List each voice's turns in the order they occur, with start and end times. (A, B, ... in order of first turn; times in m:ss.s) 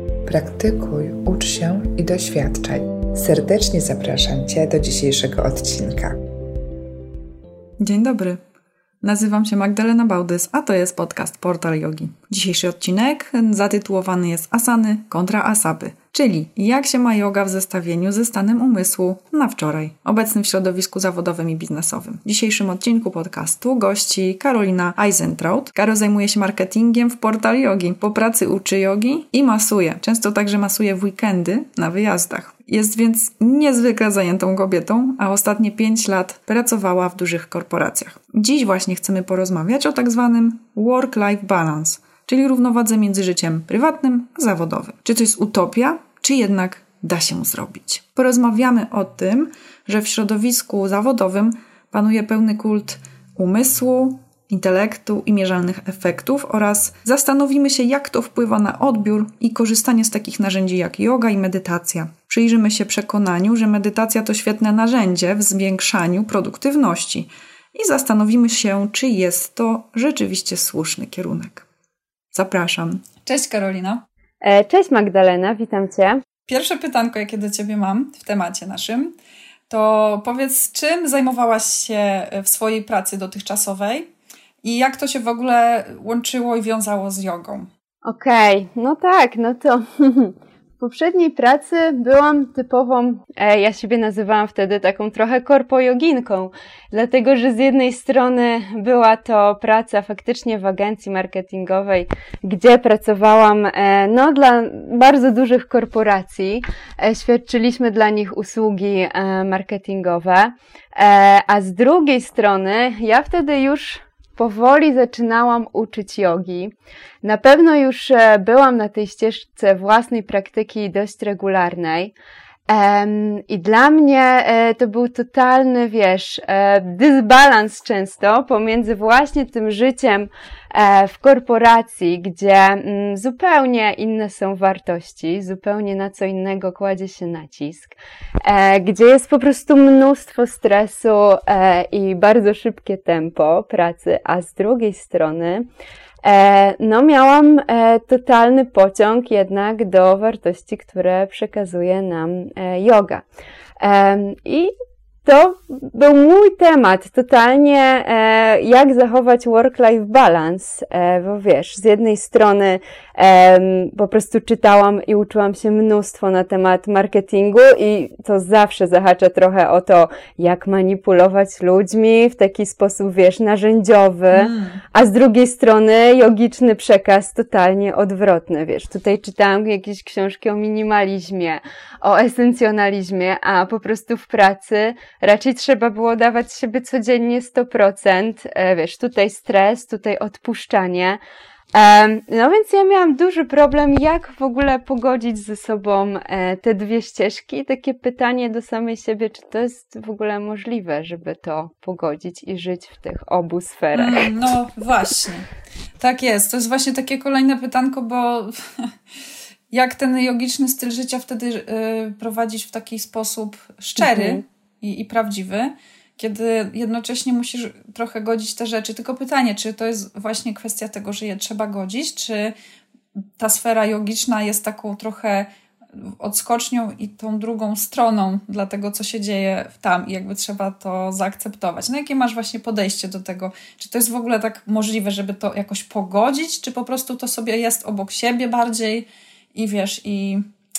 0:00.2-0:06.2 A
0:07.8-0:08.4 B
0:09.0-1:11.6 B
1:12.3-1:14.0 B
1:14.4-1:16.2 C
1:16.5-1:19.1 B
1:19.7-1:24.1 B
1:24.6-1:27.7 B
1:28.0-1:56.7 C
1:57.2-2:02.1 C
2:02.7-2:25.7 C
2:26.2-2:33.2 C
2:33.8-2:34.7 C
2:35.2-3:11.2 C
2:54.3-2:54.8 B
3:11.7-3:24.3 C
3:23.9-3:25.4 B
3:26.0-3:28.9 B
3:29.7-3:42.5 B
3:34.0-3:34.4 C
3:43.4-4:00.4 B